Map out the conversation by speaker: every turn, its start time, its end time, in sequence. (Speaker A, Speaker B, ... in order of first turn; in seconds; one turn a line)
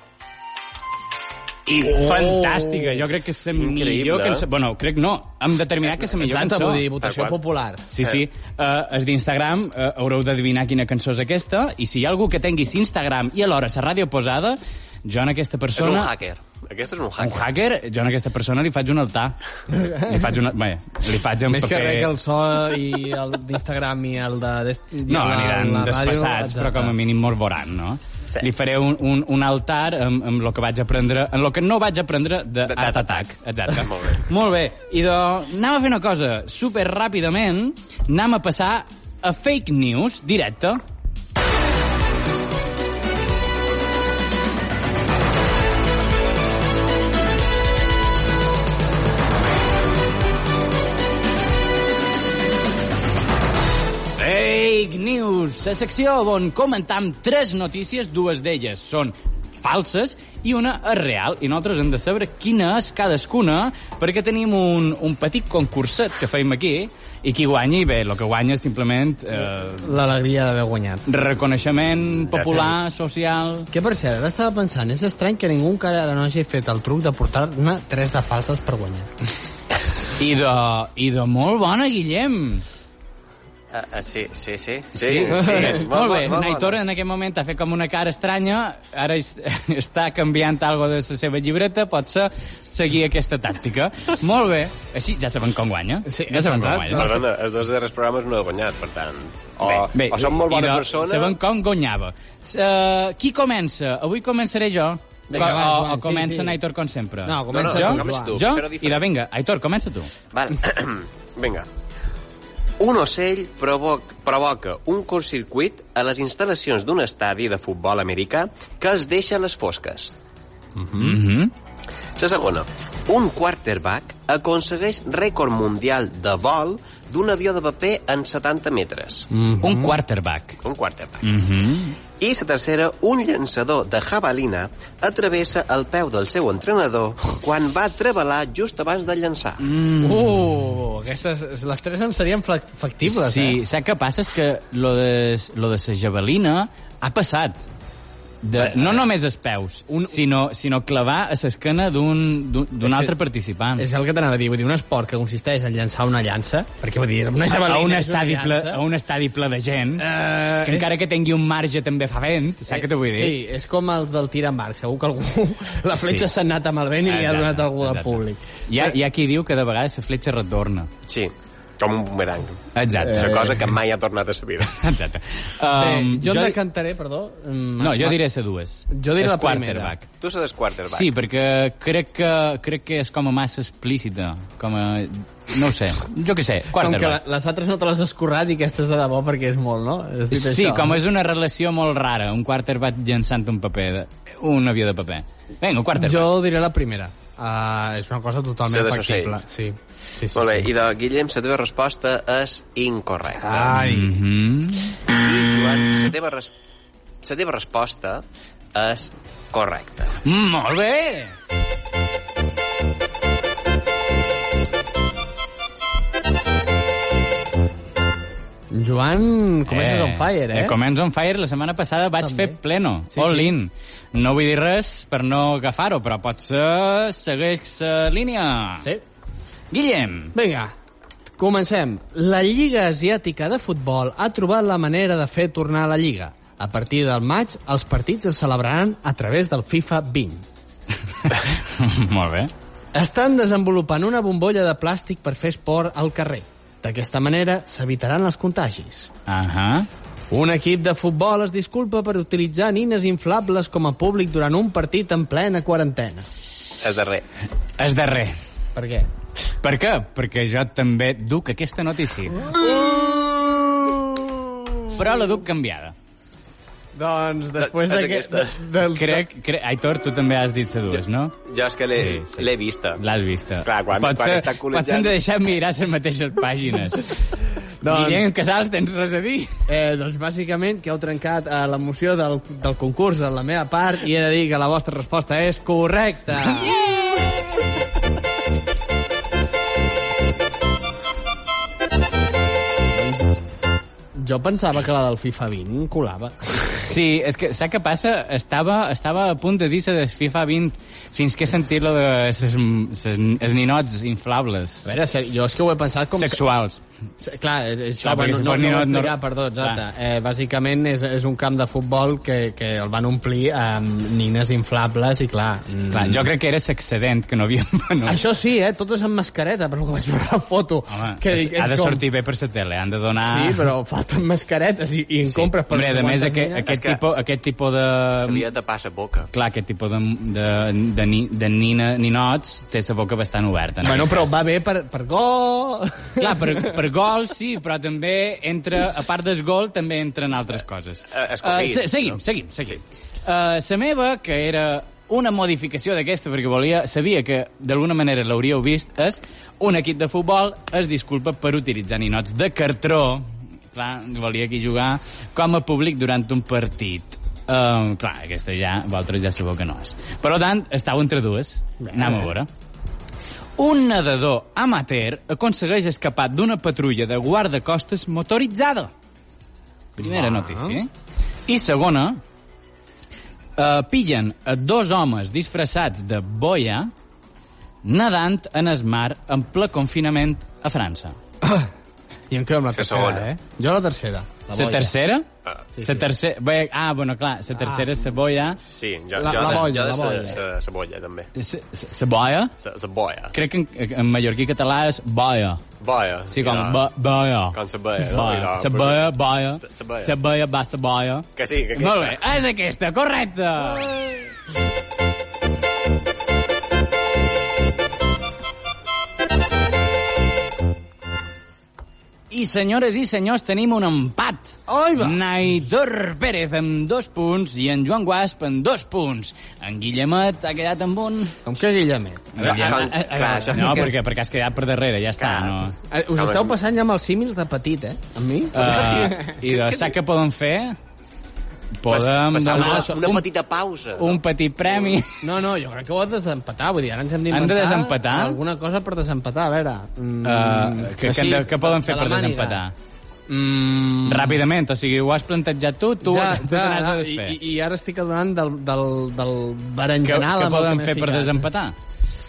Speaker A: 1.7-6.8
Speaker B: 1.8-3.0
Speaker C: 3.5-4.4
Speaker B: 6.2-7.9
Speaker C: 7.0-7.4
Speaker A: 7.9-16.1
Speaker C: 15.7-17.5
Speaker A: 17.2-22.1
Speaker B: 19.7-20.1
Speaker B: 21.5-26.9
Speaker A: 25.1-40.8
Speaker C: 32.6-34.2
Speaker A: 54.2-69.9
Speaker B: 69.8-71.0
Speaker A: 71.0-73.7
Speaker C: 72.3-72.7
Speaker B: 73.7-79.1
Speaker A: 80.2-82.6
Speaker C: 83.7-86.8
Speaker A: 84.9-97.1
Speaker B: 96.0-97.2
Speaker C: 96.9-101.4
Speaker A: 99.6-110.1
Speaker B: 105.3-106.6
Speaker B: 107.2-108.4
Speaker C: 107.5-109.0
Speaker C: 110.3-111.7
Speaker C: 112.8-120.1
Speaker B: 120.8-121.2
Speaker A: 121.0-121.5
Speaker C: 122.2-129.3
Speaker B: 129.3-129.9
Speaker A: 129.6-130.6
Speaker C: 130.6-131.2
Speaker A: 131.2-131.9
Speaker C: 132.2-139.6
Speaker A: 139.6-140.5
Speaker B: 140.0-143.6
Speaker A: 143.0-147.6
Speaker A: 148.4-153.9
Speaker B: 148.7-149.0
Speaker B: 149.9-150.2
Speaker B: 152.8-153.1
Speaker B: 153.8-158.8
Speaker A: 157.5-163.4
Speaker B: 160.0-160.9
Speaker B: 162.7-169.0
Speaker A: 165.9-166.3
Speaker A: 167.0-170.9
Speaker C: 171.1-174.8
Speaker A: 172.7-173.4
Speaker B: 173.0-173.6
Speaker A: 174.7-176.6
Speaker B: 175.7-178.2
Speaker A: 177.8-180.1
Speaker B: 178.9-179.9
Speaker C: 180.2-181.1
Speaker A: 180.9-187.2
Speaker B: 186.7-191.0
Speaker A: 190.3-196.3
Speaker B: 195.9-200.7
Speaker C: 198.7-199.4
Speaker C: 200.3-203.7
Speaker B: 203.4-204.1
Speaker A: 203.7-204.9
Speaker C: 205.1-206.5
Speaker C: 207.2-210.1
Speaker A: 210.2-211.3
Speaker B: 218.7-220.8
Speaker A: 219.7-228.9
Speaker B: 222.2-222.6
Speaker B: 223.1-223.5
Speaker A: 229.7-230.3
Speaker B: 230.3-230.7
Speaker B: 231.4-240.4
Speaker A: 241.2-242.5
Speaker B: 242.9-249.1
Speaker A: 249.3-249.9
Speaker B: 250.3-256.3
Speaker C: 256.8-257.2
Speaker A: 257.8-258.4
Speaker B: 258.7-259.1
Speaker A: 259.6-262.5
Speaker B: 262.5-265.0
Speaker A: 264.9-265.9
Speaker B: 266.9-269.3
Speaker C: 267.6-268.6
Speaker A: 268.9-271.3
Speaker C: 270.9-273.0
Speaker A: 271.9-279.6
Speaker C: 273.6-275.2
Speaker B: 277.8-278.3
Speaker B: 279.7-286.8
Speaker B: 292.9-293.3
Speaker B: 294.1-296.8
Speaker A: 296.7-304.9
Speaker B: 304.9-306.4
Speaker A: 306.1-306.8
Speaker B: 307.2-316.3
Speaker A: 308.0-309.8
Speaker A: 315.9-318.2
Speaker B: 318.0-322.0
Speaker A: 320.9-323.6
Speaker B: 323.1-326.7
Speaker A: 325.3-328.4
Speaker C: 326.6-327.2
Speaker C: 328.2-329.3
Speaker A: 329.3-334.3
Speaker B: 333.8-336.8
Speaker A: 336.2-362.5
Speaker C: 341.1-342.2
Speaker B: 361.8-362.3
Speaker A: 363.6-368.9
Speaker B: 370.0-370.8
Speaker A: 370.0-370.9
Speaker A: 371.5-372.2
Speaker A: 373.6-376.9
Speaker A: 377.8-381.1
Speaker B: 381.4-381.7
Speaker B: 382.3-384.9
Speaker C: 382.7-383.3
Speaker A: 384.5-385.3
Speaker B: 385.7-386.1
Speaker A: 385.8-388.6
Speaker B: 387.6-387.9
Speaker C: 388.6-391.3
Speaker B: 389.1-390.4
Speaker A: 391.4-392.5
Speaker C: 392.6-393.3
Speaker A: 393.3-395.6
Speaker C: 395.8-396.8
Speaker A: 396.3-404.0
Speaker C: 397.5-400.1
Speaker C: 401.4-402.2
Speaker A: 412.3-421.4
Speaker B: 414.7-415.2
Speaker B: 421.4-423.9
Speaker A: 422.3-425.7
Speaker C: 422.4-423.9
Speaker C: 425.2-426.5
Speaker B: 425.9-429.3
Speaker A: 428.5-430.8
Speaker C: 428.6-429.9
Speaker A: 431.8-433.3
Speaker C: 431.9-435.0
Speaker B: 432.4-433.0
Speaker A: 433.9-435.2
Speaker B: 435.2-442.6
Speaker A: 437.3-438.4
Speaker A: 440.2-442.7
Speaker B: 443.3-444.4
Speaker A: 444.0-447.4
Speaker B: 446.0-451.5
Speaker A: 450.0-451.7